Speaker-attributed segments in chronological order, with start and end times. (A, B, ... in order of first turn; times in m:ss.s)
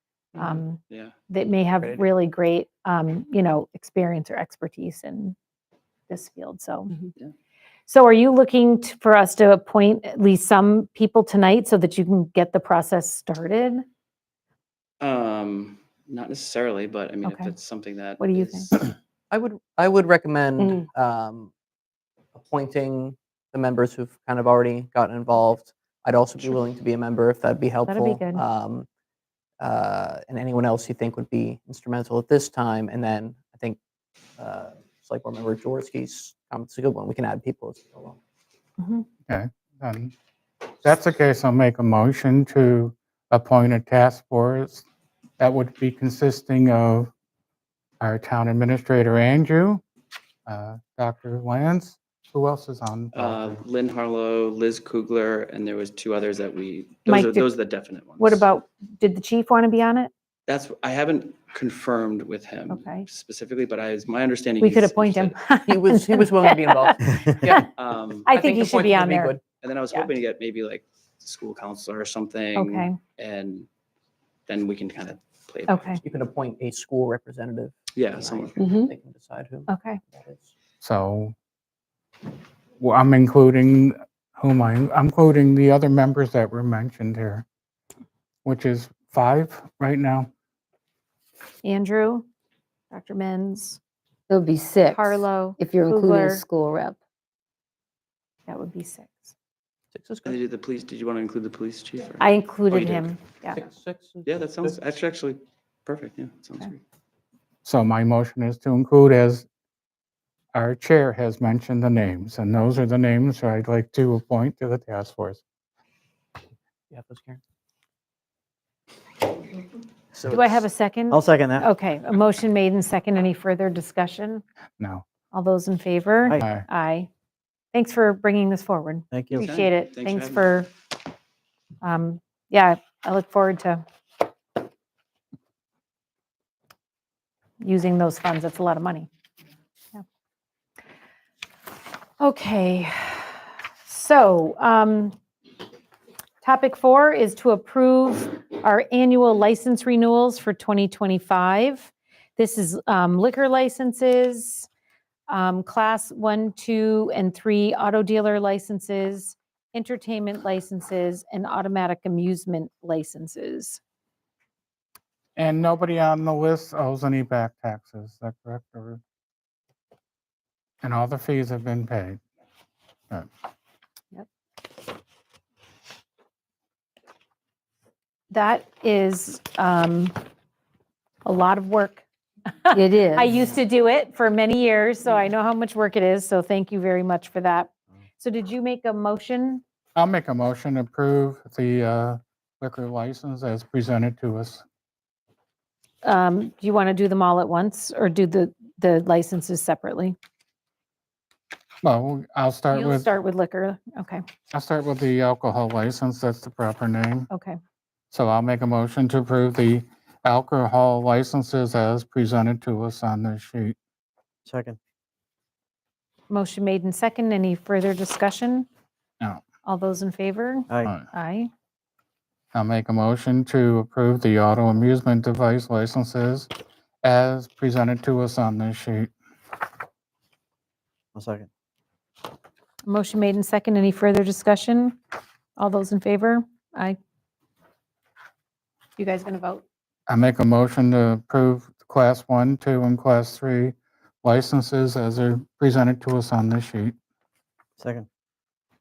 0:00.4-0:05.4 A
0:00.9-0:01.1 B
0:06.1-0:06.9 A
0:07.9-0:13.8 A
0:15.0-0:19.0 B
0:17.2-0:17.5 A
0:18.2-0:18.7 A
0:19.3-0:21.5 C
0:20.6-0:20.8 D
0:22.3-0:28.9 C
0:27.9-0:28.4 A
0:29.6-0:33.8 C
0:34.4-0:38.2 C
0:38.8-0:39.0 A
0:39.3-0:40.1 E
0:40.8-0:44.8 E
0:45.4-0:47.1 E
0:48.0-0:49.8 E
0:50.4-0:53.6 E
0:53.1-0:58.4 B
0:57.1-0:57.5 A
0:58.2-1:00.1 A
1:00.5-1:05.4 B
1:02.7-1:03.0 A
1:04.6-1:07.7 A
1:05.6-1:07.7 C
1:07.8-1:08.3 B
1:08.2-1:09.3 A
1:08.3-1:09.4 C
1:09.5-1:13.7 B
1:12.6-1:13.0 A
1:14.5-1:16.0 B
1:15.7-1:16.0 A
1:16.0-1:20.5 C
1:17.9-1:18.6 B
1:18.6-1:18.9 D
1:19.7-1:20.0 A
1:20.8-1:21.3 E
1:22.8-1:27.4 E
1:28.4-1:30.3 E
1:31.6-1:32.3 A
1:32.9-1:33.8 A
1:34.3-1:37.0 D
1:34.9-1:36.4 A
1:38.5-1:39.3 A
1:39.9-1:40.4 C
1:40.2-1:43.2 B
1:42.2-1:43.6 A
1:43.5-1:44.8 C
1:44.2-1:46.8 B
1:47.6-1:49.4 E
1:50.5-1:55.4 E
1:56.9-1:57.4 C
2:00.1-2:00.7 C
2:00.3-2:04.4 A
2:01.1-2:01.7 F
2:04.8-2:05.0 E
2:05.3-2:07.1 A
2:06.4-2:06.6 E
2:07.7-2:10.7 A
2:09.1-2:09.5 F
2:09.3-2:10.6 B
2:11.8-2:13.8 A
2:17.6-2:19.1 A
2:22.2-2:25.2 A
2:26.4-2:34.7 A
2:35.3-2:43.8 A
2:45.4-2:49.0 E
2:50.8-2:52.2 E
2:58.3-3:00.2 A
3:01.2-3:02.0 A
3:02.6-3:09.6 A
3:02.7-3:03.4 D
3:10.0-3:14.6 E
3:16.0-3:20.2 A
3:21.8-3:23.1 E
3:22.7-3:24.2 A
3:24.5-3:27.3 E
3:27.3-3:27.6 A
3:28.1-3:33.8 E
3:34.4-3:34.8 F
3:36.3-3:38.7 A
3:39.6-3:41.5 A
3:40.7-3:40.9 F
3:42.5-3:46.5 E
3:47.0-3:49.1 E
3:51.1-3:51.5 F
3:52.8-3:55.0 A
3:55.6-3:57.0 A
3:59.0-3:59.6 A
4:00.1-4:07.0 E
4:07.8-4:08.1 F